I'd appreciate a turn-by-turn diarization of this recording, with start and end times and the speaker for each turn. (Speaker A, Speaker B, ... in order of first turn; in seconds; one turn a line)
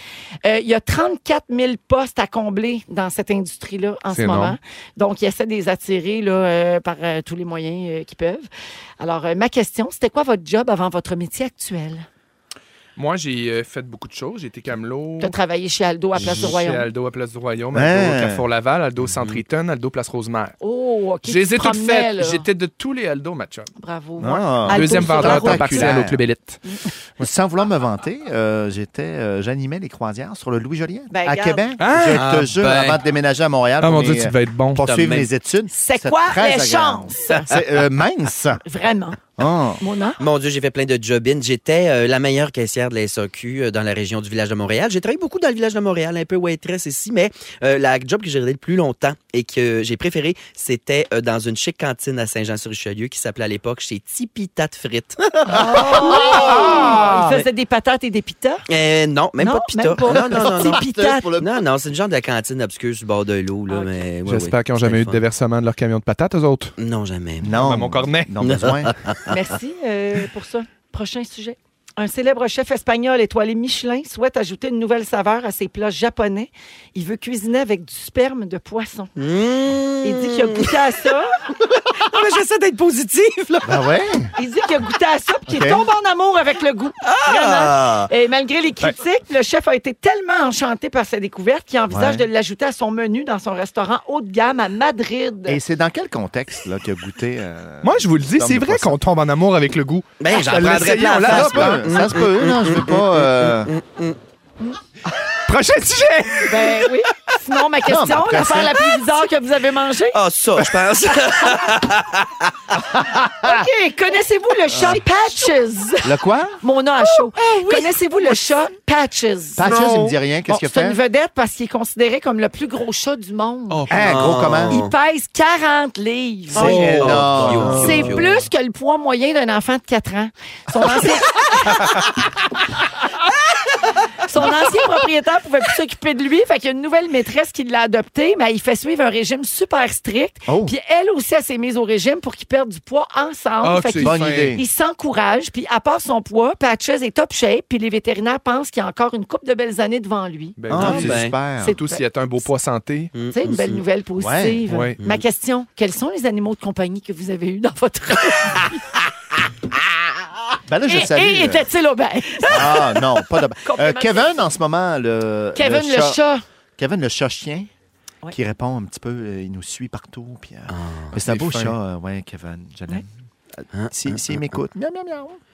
Speaker A: 0.4-8.5
Speaker B: 4.1-4.6
Speaker A: 9.0-12.1
Speaker B: 12.9-15.3
Speaker A: 15.2-16.9
Speaker B: 16.2-20.5
Speaker C: 17.7-18.4
Speaker D: 19.0-19.4
Speaker A: 20.6-22.4
Speaker B: 21.2-23.7
Speaker A: 23.8-26.0
Speaker C: 24.2-26.2
Speaker B: 24.7-26.6
Speaker C: 27.2-38.6
Speaker A: 31.1-31.6
Speaker B: 31.8-32.4
Speaker D: 32.1-33.0
Speaker B: 33.8-34.8
Speaker D: 34.8-35.3
Speaker A: 35.7-37.5
Speaker A: 38.6-39.3
Speaker C: 39.4-39.8
Speaker A: 39.8-40.2
Speaker D: 40.2-56.8
Speaker A: 55.5-58.6
Speaker C: 55.7-57.1
Speaker B: 56.1-57.3
Speaker D: 58.7-60.8
Speaker A: 59.4-61.3
Speaker C: 60.1-61.5
Speaker D: 61.4-65.2
Speaker B: 64.2-66.7
Speaker D: 66.8-67.6
Speaker C: 67.4-69.0
Speaker B: 67.5-68.3
Speaker D: 68.4-69.3
Speaker A: 69.3-79.1
Speaker D: 79.2-80.7
Speaker A: 80.0-81.4
Speaker D: 81.9-83.7
Speaker C: 83.6-84.3
Speaker A: 84.4-95.6
Speaker C: 85.5-85.8
Speaker D: 87.0-88.1
Speaker C: 91.9-92.2
Speaker C: 95.5-99.0
Speaker B: 97.8-101.8
Speaker D: 100.2-104.2
Speaker C: 101.2-103.7
Speaker B: 105.4-106.9
Speaker A: 106.5-110.2
Speaker C: 107.8-108.9
Speaker D: 110.1-112.8
Speaker C: 112.9-113.7
Speaker A: 113.4-123.9
Speaker C: 114.7-115.0
Speaker C: 116.0-116.6
Speaker C: 119.5-121.0
Speaker B: 119.7-120.0
Speaker B: 123.7-124.1
Speaker C: 123.9-124.8
Speaker D: 124.0-124.9
Speaker A: 124.7-127.0
Speaker C: 126.5-128.2
Speaker B: 126.5-128.0
Speaker D: 126.7-128.3
Speaker A: 127.8-131.9
Speaker A: 134.2-151.0
Speaker C: 140.4-140.7
Speaker B: 143.6-144.6
Speaker C: 144.0-144.6
Speaker B: 150.6-153.1
Speaker C: 150.7-151.8
Speaker D: 150.7-151.3
Speaker A: 151.6-152.0
Speaker D: 153.1-153.8
Speaker A: 153.3-158.8
Speaker C: 154.2-154.6
Speaker B: 154.7-155.0
Speaker C: 160.7-161.7
Speaker A: 160.9-164.3
Speaker C: 162.4-166.2
Speaker A: 165.6-166.4
Speaker C: 166.8-167.7
Speaker C: 168.3-175.4
Speaker D: 170.7-171.1
Speaker B: 171.2-171.7
Speaker D: 173.7-174.6